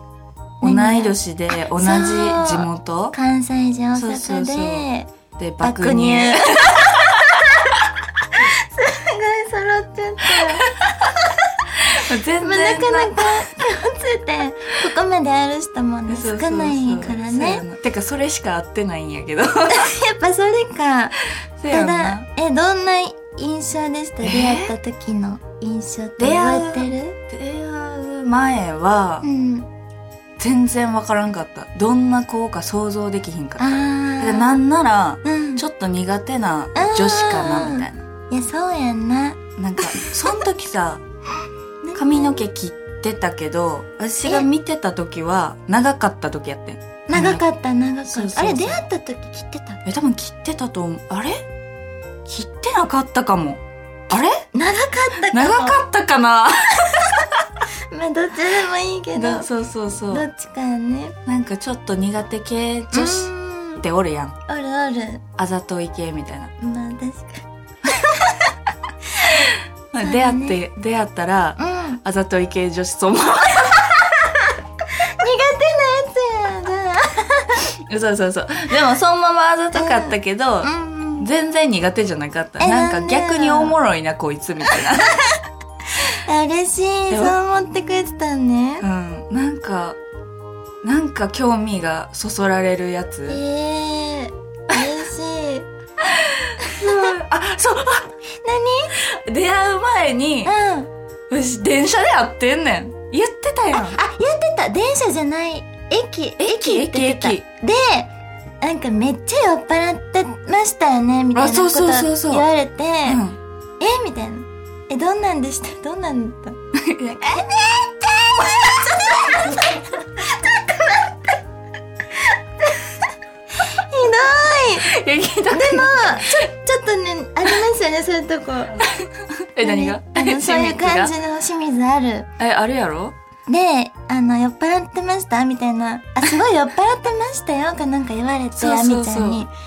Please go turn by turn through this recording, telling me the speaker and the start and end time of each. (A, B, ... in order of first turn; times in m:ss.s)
0:00.6-0:01.2 A
0:00.6-0:03.2 B
0:01.7-0:05.1 A
0:04.0-0:07.4 B
0:05.6-0:07.5 A
0:08.3-0:10.7 A
0:10.3-0:11.1 B
0:11.8-0:13.4 B
0:12.4-0:17.6 A
0:16.1-0:19.9 B
0:19.7-0:21.2 A
0:21.6-0:22.3 B
0:21.7-0:27.2 A
0:24.2-0:24.7 B
0:26.2-0:29.2 B
0:29.2-0:29.7 A
0:30.4-0:38.0 B
0:33.6-0:34.5 A
0:35.2-0:35.6 A
0:36.8-0:40.2 A
0:39.6-0:41.0 B
0:41.8-0:42.5 A
0:42.0-0:47.4 B
0:47.1-0:49.8 A
0:48.1-0:48.8 B
0:49.8-0:51.4 B
0:52.3-0:54.4 B
0:54.5-0:55.8 A
0:55.2-0:57.5 B
0:57.9-0:59.5 A
0:59.1-1:00.3 B
1:00.1-1:01.2 A
1:01.3-1:04.4 B
1:02.9-1:03.8 A
1:04.5-1:05.2 A
1:05.4-1:06.5 B
1:06.6-1:07.4 A
1:08.0-1:08.4 A
1:09.2-1:14.2 B
1:10.0-1:10.6 A
1:11.6-1:12.0 A
1:15.0-1:17.8 A
1:17.8-1:25.4 B
1:19.7-1:21.3 A
1:22.6-1:23.8 A
1:26.0-1:28.8 A
1:27.1-1:27.4 B
1:28.8-1:30.0 B
1:30.8-1:33.4 B
1:33.3-1:35.7 A
1:36.0-1:38.1 B
1:36.6-1:37.1 A
1:38.4-1:38.9 A
1:39.0-1:40.5 B
1:40.4-1:40.9 A
1:41.3-1:44.0 B
1:43.8-1:48.1 A
1:46.4-1:47.4 B
1:48.6-1:53.2 A
1:51.3-1:52.5 B
1:53.1-1:53.4 B
1:53.8-1:56.6 A
1:56.7-1:57.5 B
1:57.2-1:57.8 A
1:58.4-2:01.4 A
1:58.4-1:59.4 B
2:02.6-2:03.0 A
2:03.6-2:04.9 A
2:04.8-2:06.3 B
2:05.5-2:08.9 A
2:08.8-2:11.1 B
2:09.6-2:12.3 A
2:12.4-2:13.2 B
2:13.5-2:19.5 A
2:18.6-2:19.4 B